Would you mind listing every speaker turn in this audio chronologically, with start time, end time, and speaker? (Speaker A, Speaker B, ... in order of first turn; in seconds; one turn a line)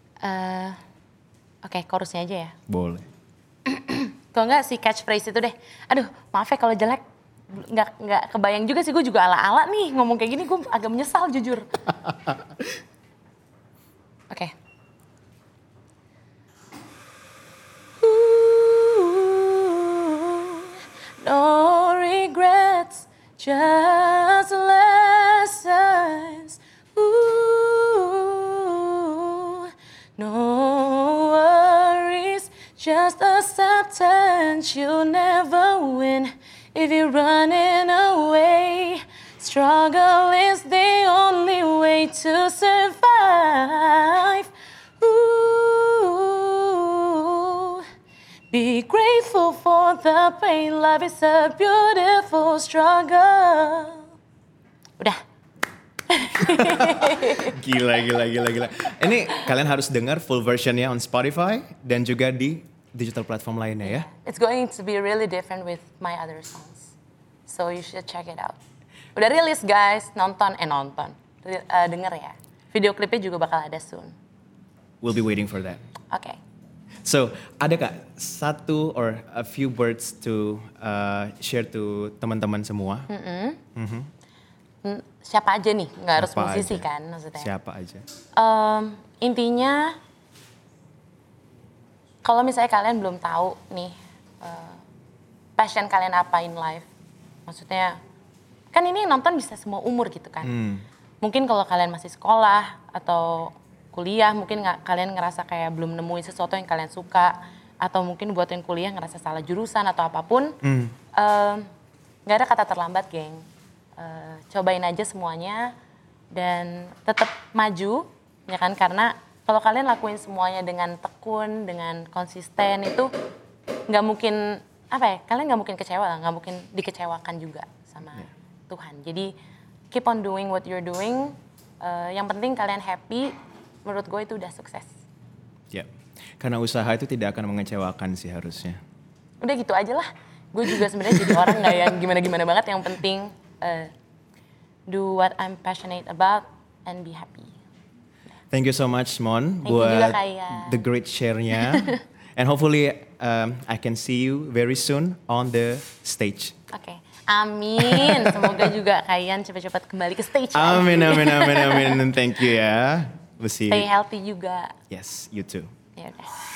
Speaker A: 0.2-0.8
Speaker A: 1.6-2.5
Speaker B: 2.7-3.0
Speaker A: 3.6-11.8
Speaker A: 18.0-47.8
Speaker A: 48.5-54.1
Speaker A: 56.1-57.8
Speaker B: 56.4-64.1
Speaker A: 58.8-59.5
Speaker A: 63.8-67.0
Speaker A: 67.5-68.6
Speaker A: 69.2-74.1
Speaker B: 75.0-75.8
Speaker A: 76.1-76.4
Speaker B: 77.0-83.1
Speaker A: 83.1-83.6
Speaker B: 83.7-84.1
Speaker A: 84.8-87.5
Speaker B: 86.2-86.8
Speaker B: 87.4-88.0
Speaker A: 88.4-90.0
Speaker A: 92.2-94.8
Speaker A: 95.6-96.9
Speaker A: 97.5-98.0
Speaker A: 98.7-100.5
Speaker B: 100.4-100.8
Speaker A: 101.2-110.6
Speaker B: 110.6-111.0
Speaker A: 111.1-111.7
Speaker A: 112.3-115.7
Speaker A: 116.3-123.1
Speaker A: 123.9-129.3
Speaker A: 129.9-134.9
Speaker B: 135.7-138.8
Speaker A: 139.4-143.9
Speaker B: 140.8-141.9
Speaker A: 144.9-147.6
Speaker B: 148.5-156.6
Speaker A: 149.6-150.8
Speaker A: 151.6-152.0
Speaker A: 156.7-162.0
Speaker B: 157.8-158.7
Speaker B: 160.5-163.9
Speaker A: 163.7-164.8
Speaker B: 164.9-165.7
Speaker A: 165.9-166.3